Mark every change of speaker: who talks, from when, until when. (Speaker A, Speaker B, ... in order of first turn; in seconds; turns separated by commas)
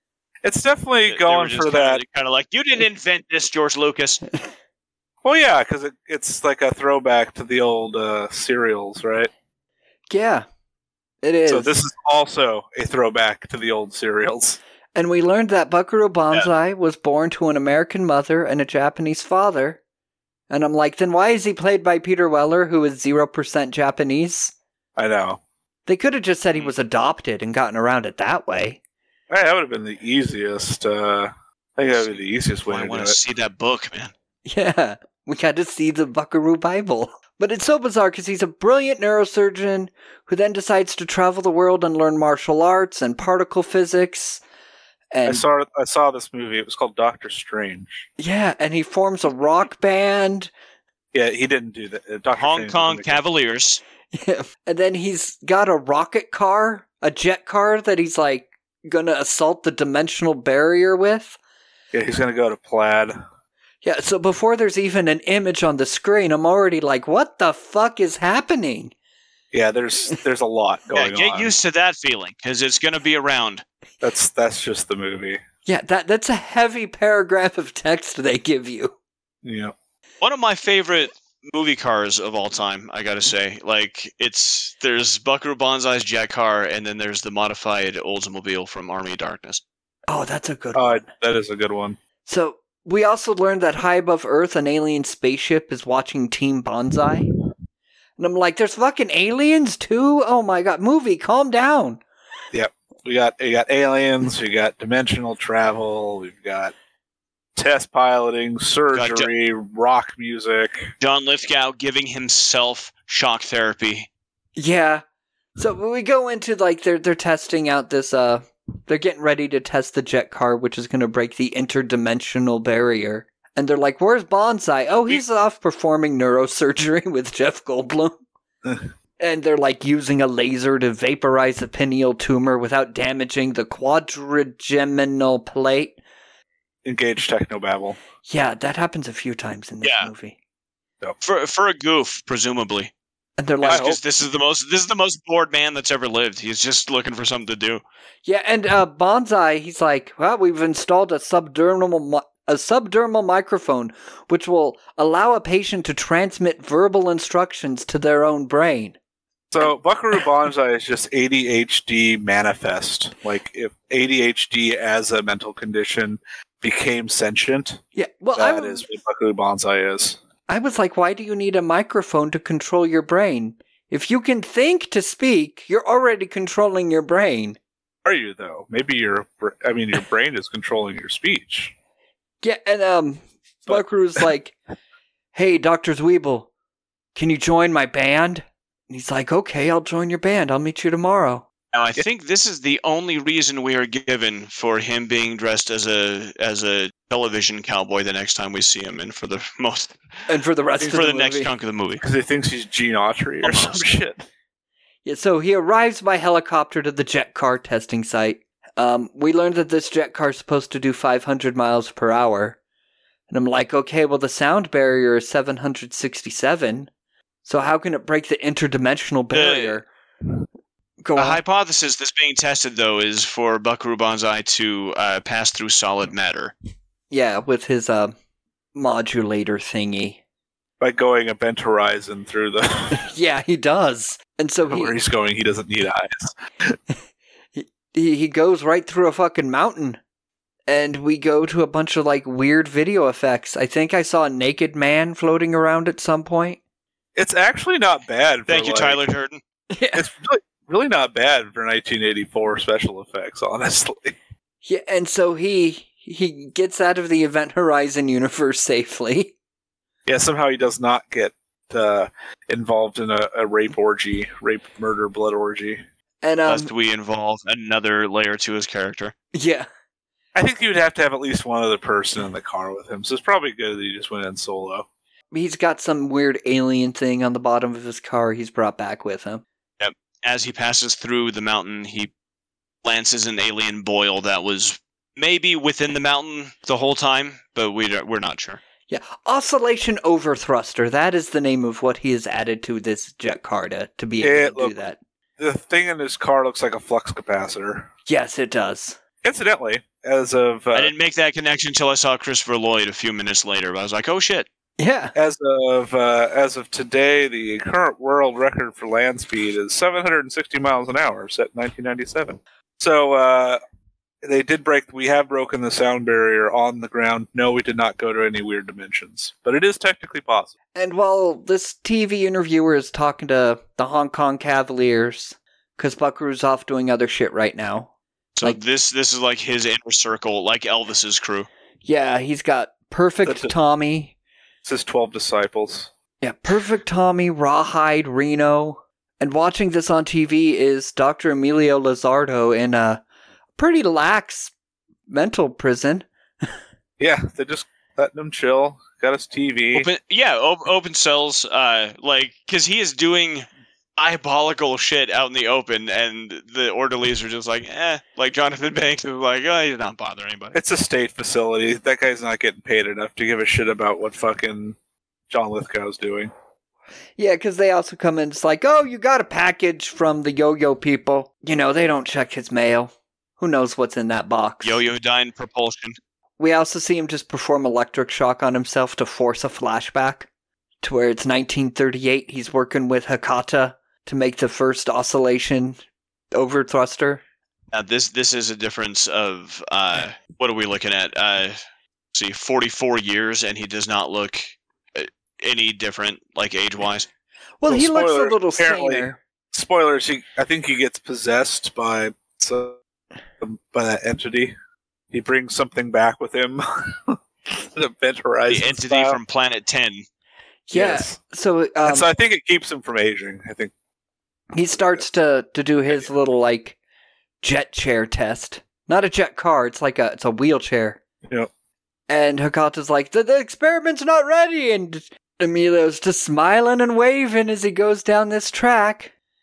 Speaker A: 0.4-2.0, Speaker B: 1.1-4.2, Speaker A: 5.2-9.3, Speaker C: 10.1-10.4, Speaker C: 11.2-11.7, Speaker A: 11.5-14.6, Speaker C: 14.9-19.8, Speaker C: 20.5-24.5, Speaker A: 25.0-25.4, Speaker C: 25.9-28.8, Speaker A: 29.3-33.2, Speaker B: 31.9-34.1, Speaker C: 34.5-44.4, Speaker C: 45.1-45.4, Speaker A: 45.3-48.1, Speaker C: 48.2-50.5, Speaker A: 51.1-53.2, Speaker B: 52.4-53.8, Speaker C: 54.1-61.4, Speaker A: 61.9-63.2, Speaker C: 63.8-68.9, Speaker A: 69.5-71.5, Speaker B: 70.9-73.6, Speaker A: 74.0-75.4, Speaker C: 75.7-78.9, Speaker A: 79.4-79.7, Speaker B: 80.2-89.6, Speaker C: 90.1-91.1, Speaker A: 90.8-92.0, Speaker C: 92.3-97.3, Speaker C: 98.2-102.0, Speaker A: 102.5-106.7, Speaker A: 107.6-110.9, Speaker B: 108.9-109.3, Speaker B: 111.0-114.1, Speaker C: 114.6-115.0, Speaker C: 115.6-128.2, Speaker A: 128.7-128.9, Speaker C: 129.2-136.0, Speaker A: 136.8-138.0, Speaker C: 138.3-140.4, Speaker B: 139.8-140.1, Speaker B: 141.2-142.9, Speaker C: 143.4-143.9, Speaker B: 143.6-147.8, Speaker A: 143.7-144.0, Speaker C: 148.2-159.0, Speaker A: 159.5-167.8, Speaker C: 167.9-168.8, Speaker A: 168.4-170.2, Speaker C: 170.5-177.6, Speaker A: 178.1-181.7, Speaker C: 182.4-184.6, Speaker C: 185.3-186.5, Speaker C: 187.2-191.5, Speaker B: 191.7-200.0, Speaker C: 200.3-201.5, Speaker B: 200.8-202.0, Speaker A: 202.0-204.2, Speaker B: 203.4-203.9, Speaker C: 205.1-212.6, Speaker C: 213.3-216.9, Speaker C: 217.4-219.9, Speaker B: 219.3-219.8, Speaker C: 221.0-221.4, Speaker B: 221.2-226.5, Speaker C: 227.1-228.1, Speaker C: 228.8-230.2, Speaker A: 230.8-233.0, Speaker C: 232.9-234.9, Speaker A: 234.7-236.8, Speaker C: 237.6-240.0, Speaker C: 240.7-246.6, Speaker A: 247.2-249.0, Speaker B: 248.5-249.4, Speaker C: 249.7-250.1, Speaker A: 249.9-254.2, Speaker C: 254.6-259.3, Speaker A: 260.1-265.8, Speaker C: 266.2-266.7, Speaker B: 266.5-269.1, Speaker C: 269.3-269.7, Speaker A: 270.4-274.9, Speaker C: 275.3-279.4, Speaker B: 279.8-282.1, Speaker B: 282.8-288.6, Speaker C: 288.9-295.0, Speaker A: 294.2-294.8, Speaker A: 295.4-297.9, Speaker C: 298.1-299.0, Speaker A: 299.2-300.9, Speaker B: 300.7-304.5, Speaker C: 304.8-305.1, Speaker A: 305.2-313.6, Speaker A: 314.2-320.5, Speaker C: 320.8-327.9, Speaker B: 328.4-331.5, Speaker C: 331.9-334.1, Speaker A: 333.2-333.5, Speaker A: 334.6-335.9, Speaker C: 336.2-343.0, Speaker C: 343.6-344.5, Speaker C: 345.1-346.1, Speaker A: 347.0-349.9, Speaker B: 349.7-360.6, Speaker A: 360.6-364.8, Speaker A: 365.3-366.3, Speaker C: 367.2-374.8, Speaker B: 374.6-376.0, Speaker C: 376.4-380.3, Speaker C: 380.8-385.8, Speaker C: 386.3-387.2, Speaker B: 387.7-391.6, Speaker B: 392.1-397.1, Speaker C: 397.6-399.2, Speaker A: 397.7-402.8, Speaker A: 403.4-404.5, Speaker A: 405.1-409.2, Speaker B: 408.5-410.1, Speaker C: 410.7-412.1, Speaker A: 410.7-411.2, Speaker A: 411.9-413.7, Speaker C: 414.5-416.8, Speaker C: 417.4-421.0, Speaker C: 422.1-429.1